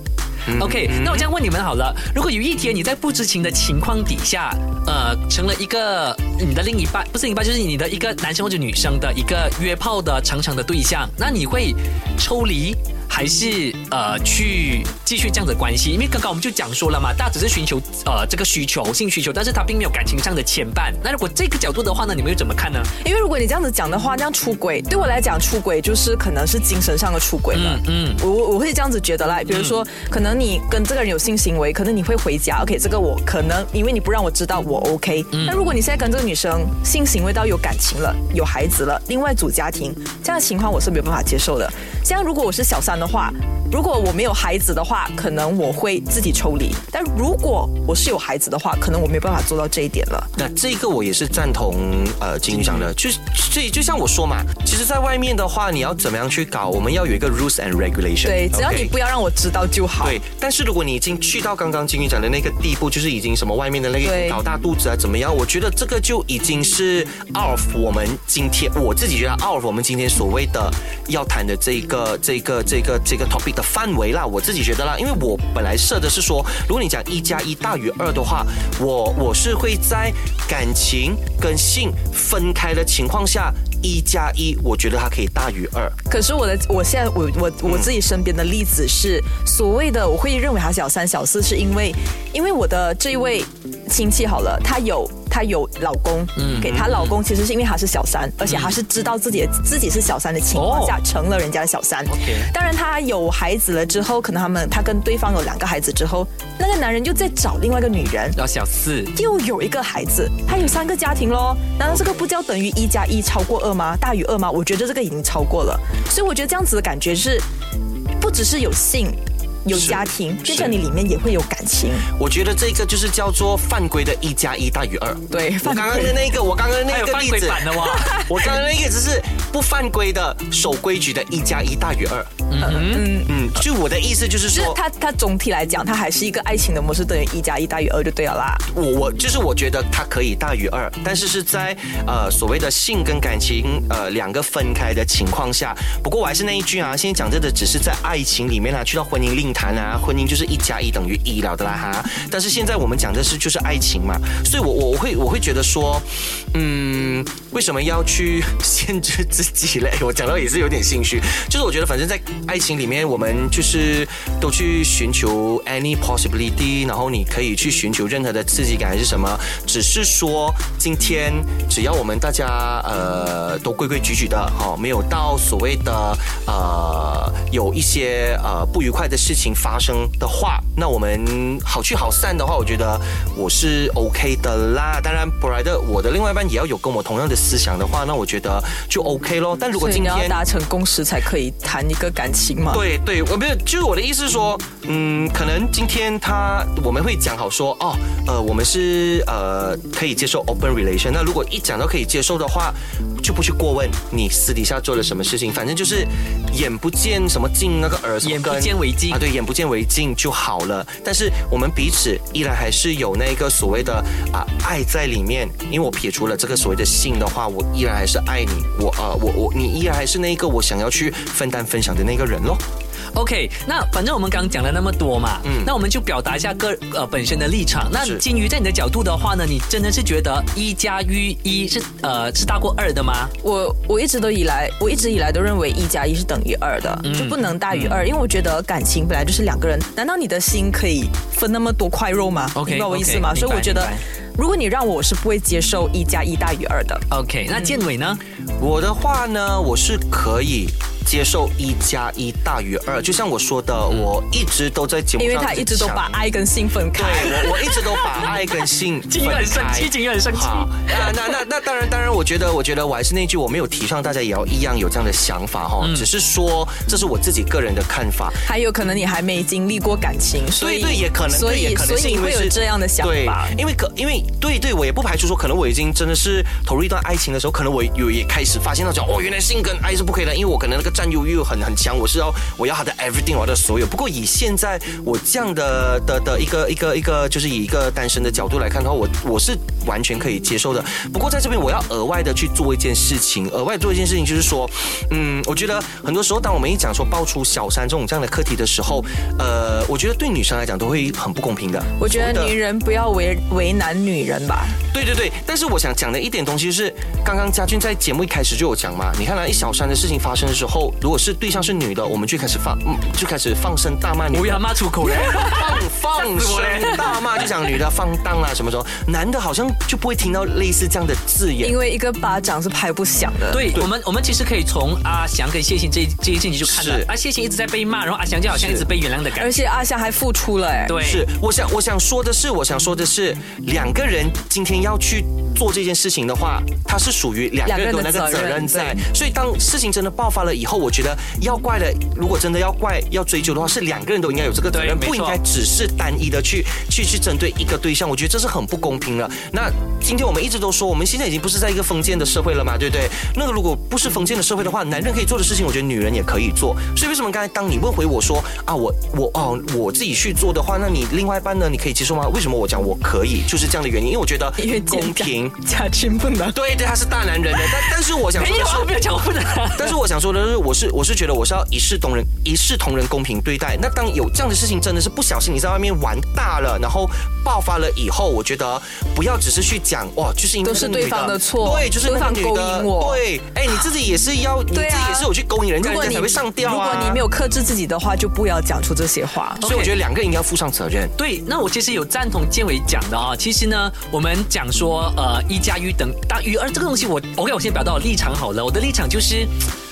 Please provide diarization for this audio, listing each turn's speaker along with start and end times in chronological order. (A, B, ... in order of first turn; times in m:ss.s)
0:00.5-0:01.3 A
0:00.6-0:22.9 B
0:23.0-0:50.3 C
0:27.5-0:28.2 B
0:29.5-0:29.8 B
0:35.3-0:35.6 B
0:50.4-0:58.9 A
0:52.5-0:52.9 B
0:58.2-1:00.2 C
1:00.0-1:26.0 A
1:04.0-1:04.4 C
1:26.1-1:48.4 C
1:36.4-1:37.2 B
1:38.5-1:38.8 B
1:40.5-1:41.0 B
1:42.1-1:42.5 B
1:48.4-1:49.1 B
1:49.2-1:57.5 C
1:58.2-2:02.1 C
1:59.7-2:00.7 A
2:02.1-2:12.4 A
2:05.3-2:06.2 C
2:06.9-2:08.2 B
2:12.5-2:13.2 B
2:12.6-2:13.4 C
2:13.2-2:14.8 A
2:14.5-2:18.6 C
2:18.7-3:10.4 A
3:09.8-3:12.8 C
3:12.7-3:42.6 A
3:28.2-3:29.2 B
3:43.1-3:53.3 B
3:45.4-3:45.7 A
3:48.0-3:48.2 A
3:53.4-4:07.0 C
3:57.0-3:58.0 B
4:02.6-4:04.0 B
4:07.1-4:08.2 B
4:08.6-4:16.2 A
4:15.2-4:18.0 C
4:16.9-4:28.4 A
4:19.1-4:21.2 B
4:25.8-4:26.1 B
4:28.4-4:33.6 C
4:30.6-5:02.5 A
5:02.0-5:04.8 C
5:04.9-5:21.8 A
5:14.3-5:17.5 B
5:21.6-5:23.7 C
5:23.5-5:29.6 B
5:26.6-5:27.1 A
5:28.5-5:28.9 A
5:29.4-5:31.0 C
5:30.9-5:31.3 B
5:31.0-6:05.6 A
5:37.7-5:39.0 C
5:44.7-5:45.4 B
6:04.6-6:06.6 C
6:06.5-6:09.0 A
6:08.3-6:10.0 B
6:09.7-6:27.2 A
6:20.6-6:23.2 C
6:24.7-6:29.6 C
6:29.6-6:29.9 B
6:29.6-6:31.1 A
6:31.2-6:39.6 B